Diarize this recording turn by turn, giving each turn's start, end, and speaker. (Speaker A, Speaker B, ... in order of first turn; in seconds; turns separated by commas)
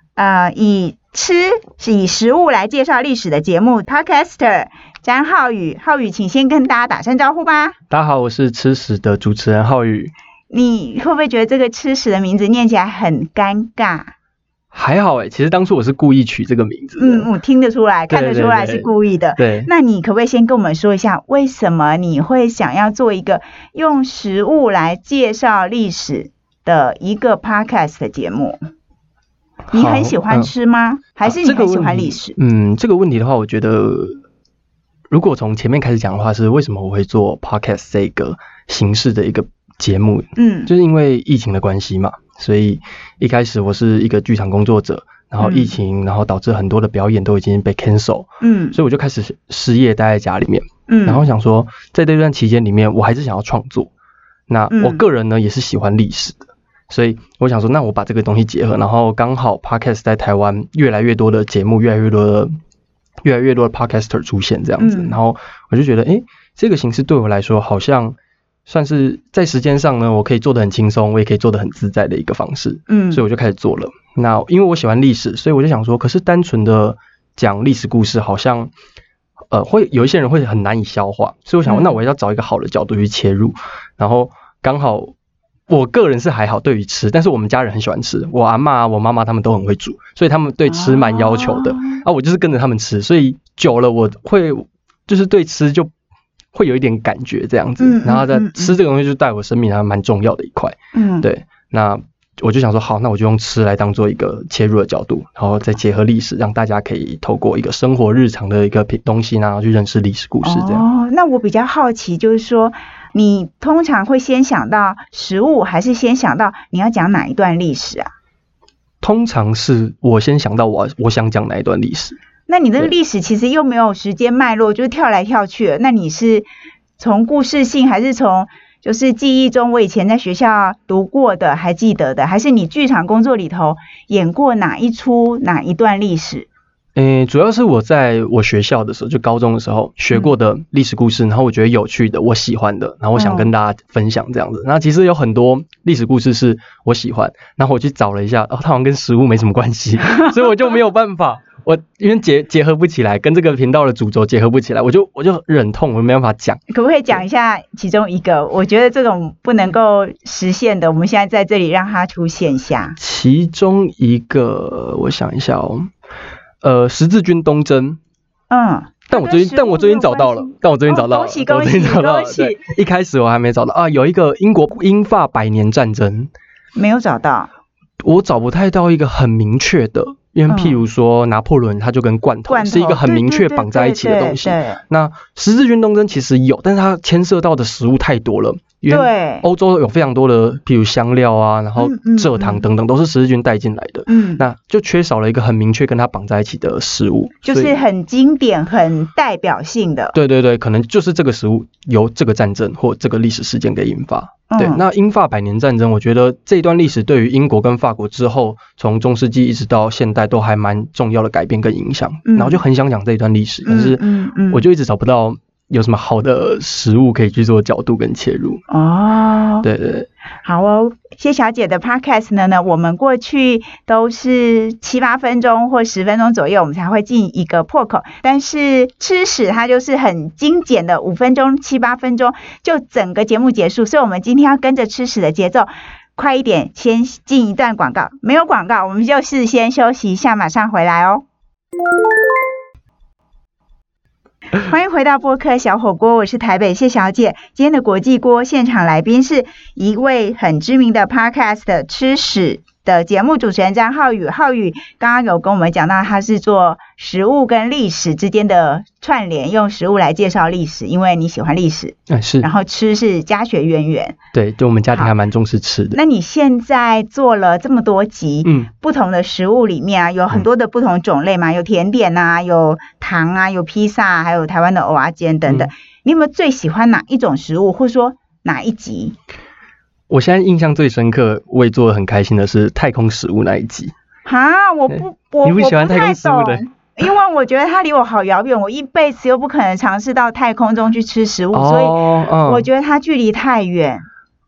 Speaker A: 0.2-7.8, Speaker B: 7.9-10.1, Speaker A: 10.5-14.1, Speaker B: 14.7-17.3, Speaker A: 17.0-28.6, Speaker B: 18.1-19.7, Speaker B: 29.7-30.5, Speaker A: 29.7-32.4, Speaker B: 31.2-34.2, Speaker B: 35.1-53.9, Speaker A: 40.4-40.7, Speaker A: 45.4-45.7, Speaker A: 48.4-48.8, Speaker A: 50.9-51.2, Speaker B: 54.5-62.5, Speaker A: 54.7-55.0, Speaker B: 63.2-68.2, Speaker A: 64.8-65.2, Speaker B: 68.7-78.7, Speaker A: 72.9-73.2, Speaker B: 79.5-85.1, Speaker A: 81.7-81.9, Speaker B: 85.7-95.9, Speaker A: 90.7-92.0, Speaker B: 96.5-110.8, Speaker A: 97.8-98.8, Speaker A: 100.9-101.3, Speaker A: 110.4-118.1, Speaker B: 119.0-122.2, Speaker A: 122.5-126.5, Speaker A: 127.0-136.5, Speaker B: 137.0-156.6, Speaker A: 143.2-143.5, Speaker A: 156.7-163.0, Speaker B: 163.0-165.9, Speaker B: 166.6-168.0, Speaker A: 168.5-172.6, Speaker B: 169.1-176.3, Speaker A: 176.8-177.5, Speaker B: 178.1-197.8, Speaker A: 180.5-180.8, Speaker A: 182.5-184.8, Speaker A: 188.9-189.5, Speaker A: 191.8-192.7, Speaker A: 194.1-194.4, Speaker A: 197.4-200.2, Speaker B: 200.1-218.6, Speaker A: 204.5-204.8, Speaker A: 212.3-212.6, Speaker A: 213.7-214.6, Speaker A: 218.7-219.7, Speaker B: 219.6-220.1, Speaker A: 220.4-241.2, Speaker A: 244.5-264.2, Speaker B: 262.1-262.5, Speaker B: 264.3-266.0, Speaker A: 265.9-279.1, Speaker B: 268.4-268.7, Speaker B: 280.1-283.9, Speaker A: 284.2-294.1, Speaker B: 284.9-286.6, Speaker B: 291.5-292.7